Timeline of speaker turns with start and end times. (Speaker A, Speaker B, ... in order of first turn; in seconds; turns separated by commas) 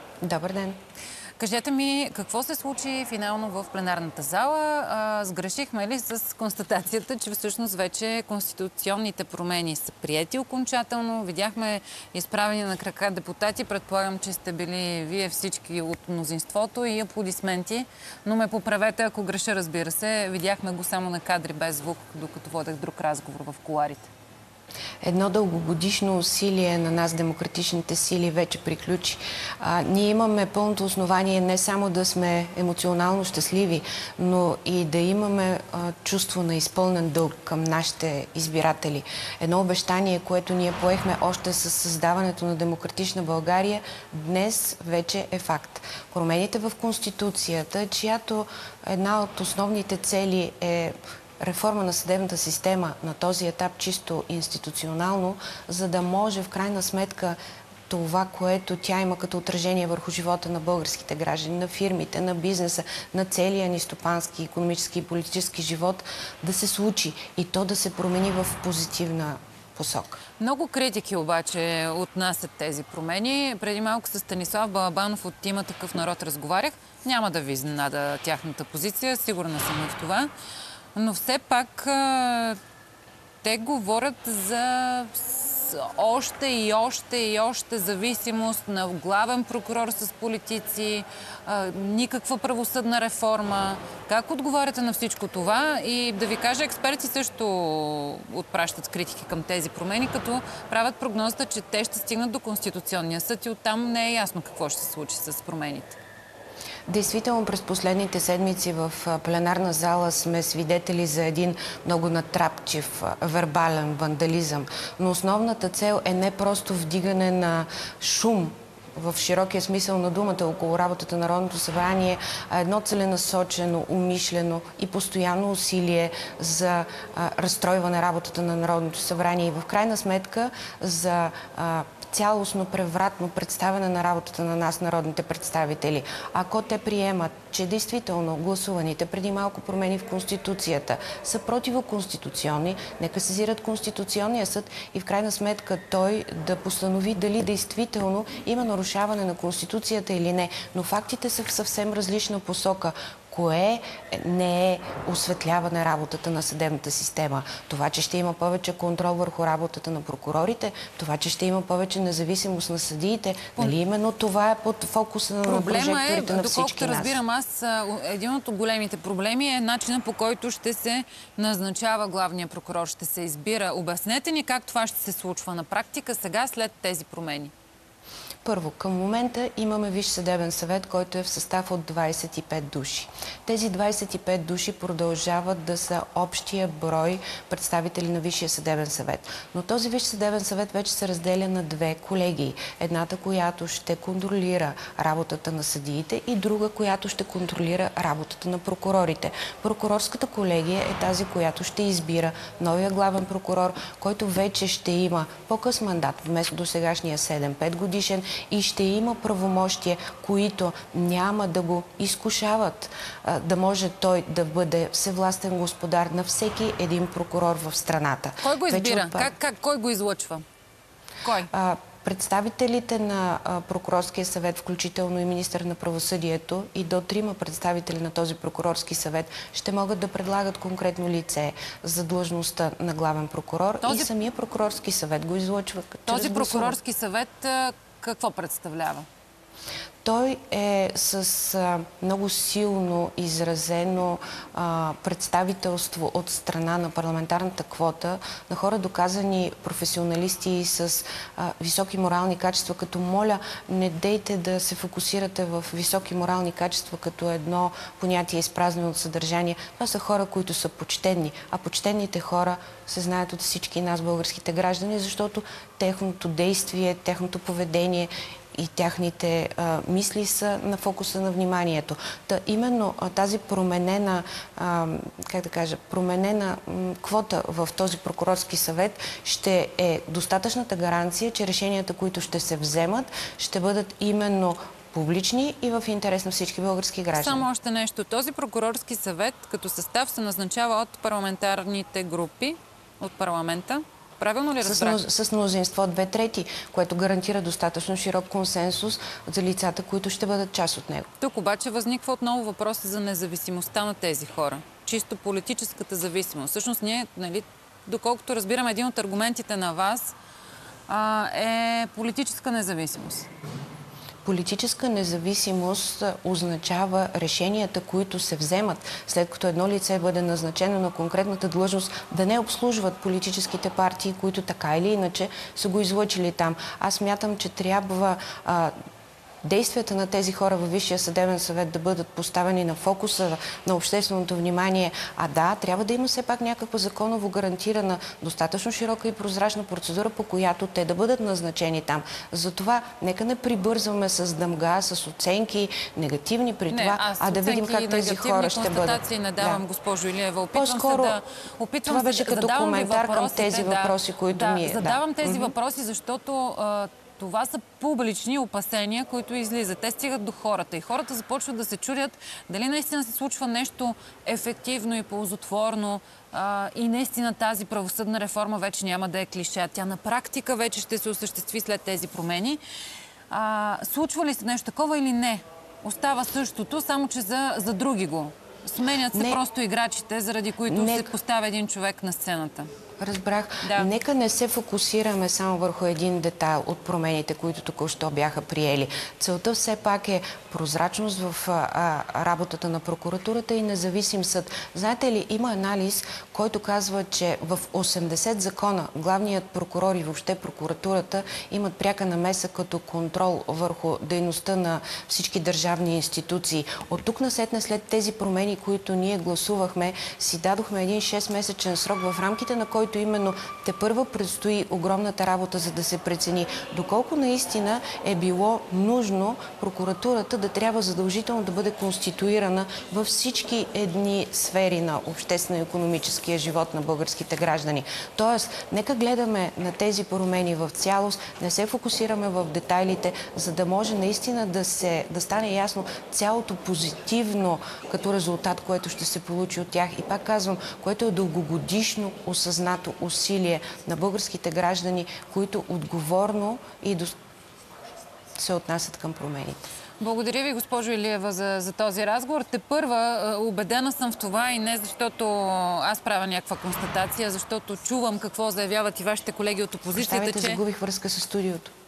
Speaker A: 0.2-0.8, Speaker B: 1.4-24.1, Speaker A: 25.0-70.2, Speaker B: 70.4-80.3, Speaker B: 80.9-82.6, Speaker B: 83.4-106.0, Speaker A: 106.9-167.2, Speaker B: 165.4-177.5, Speaker A: 178.4-219.3, Speaker B: 218.4-220.4, Speaker B: 221.2-221.5, Speaker A: 221.5-236.8, Speaker B: 233.8-234.1, Speaker B: 236.1-239.1, Speaker A: 240.0-287.4, Speaker B: 287.1-295.0, Speaker A: 294.6-301.1, Speaker B: 301.2-310.1, Speaker B: 310.9-313.3, Speaker A: 314.2-328.7, Speaker A: 329.4-349.6, Speaker B: 346.7-372.6, Speaker A: 350.5-351.2, Speaker A: 351.9-355.5, Speaker B: 373.3-382.7, Speaker A: 379.1-379.4, Speaker A: 380.6-381.1, Speaker A: 383.0-447.1, Speaker B: 383.6-383.9, Speaker A: 448.4-449.7, Speaker B: 450.0-460.6, Speaker A: 459.9-461.7